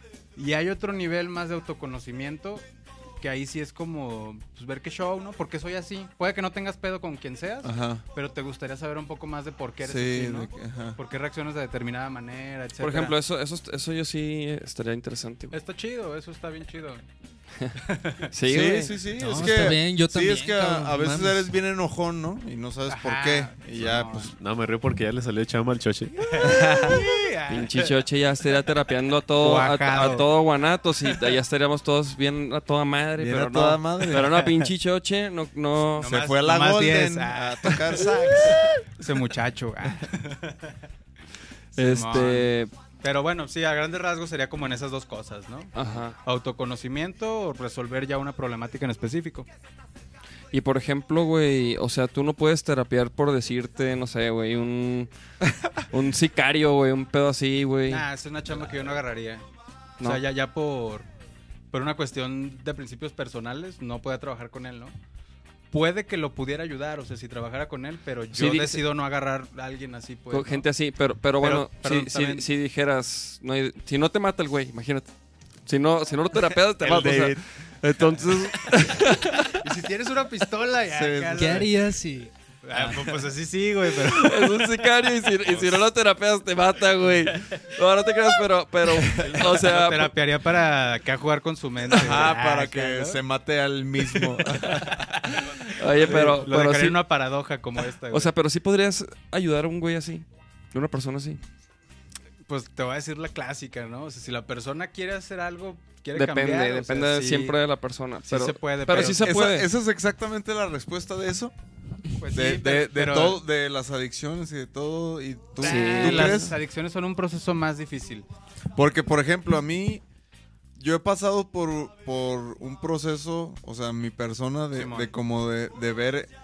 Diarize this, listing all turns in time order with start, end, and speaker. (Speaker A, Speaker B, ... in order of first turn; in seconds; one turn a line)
Speaker A: 0.3-2.6
Speaker A: 3.2-13.1
Speaker B: 7.6-8.0
Speaker B: 9.8-11.0
Speaker C: 12.8-15.6
Speaker A: 15.5-17.0
Speaker A: 17.8-18.3
Speaker C: 18.3-19.0
Speaker B: 18.4-24.3
Speaker D: 19.2-21.5
Speaker A: 22.9-24.3
Speaker E: 24.3-26.4
Speaker A: 26.2-28.0
Speaker C: 27.5-36.1
Speaker A: 29.4-30.3
Speaker B: 33.2-34.4
Speaker A: 36.0-40.7
Speaker B: 36.0-38.7
Speaker A: 41.7-45.7
Speaker C: 41.8-42.7
Speaker C: 45.7-46.2
Speaker A: 46.2-49.5
Speaker C: 50.5-55.1
Speaker C: 55.9-59.0
Speaker A: 57.9-59.4
Speaker A: 60.0-61.1
Speaker A: 61.7-64.9
Speaker A: 65.7-70.7
Speaker C: 68.3-68.8
Speaker C: 70.3-75.1
Speaker A: 71.4-72.5
Speaker C: 75.7-79.6
Speaker A: 76.8-77.3
Speaker B: 76.8-77.4
Speaker A: 78.1-79.0
Speaker A: 79.6-81.7
Speaker B: 80.9-81.7
Speaker D: 81.3-82.3
Speaker A: 82.6-84.8
Speaker C: 82.7-83.1
Speaker C: 83.9-90.1
Speaker A: 85.4-85.8
Speaker A: 89.1-93.2
Speaker B: 91.9-95.1
Speaker A: 94.1-98.3
Speaker C: 95.3-97.0
Speaker B: 96.1-96.4
Speaker C: 98.1-101.4
Speaker A: 102.5-107.6
Speaker C: 106.1-109.7
Speaker A: 108.3-109.3
Speaker B: 108.9-111.5
Speaker A: 112.2-113.4
Speaker B: 112.3-116.5
Speaker A: 115.6-118.2
Speaker C: 115.6-116.5
Speaker B: 118.8-120.0
Speaker B: 120.8-126.3
Speaker A: 124.7-125.1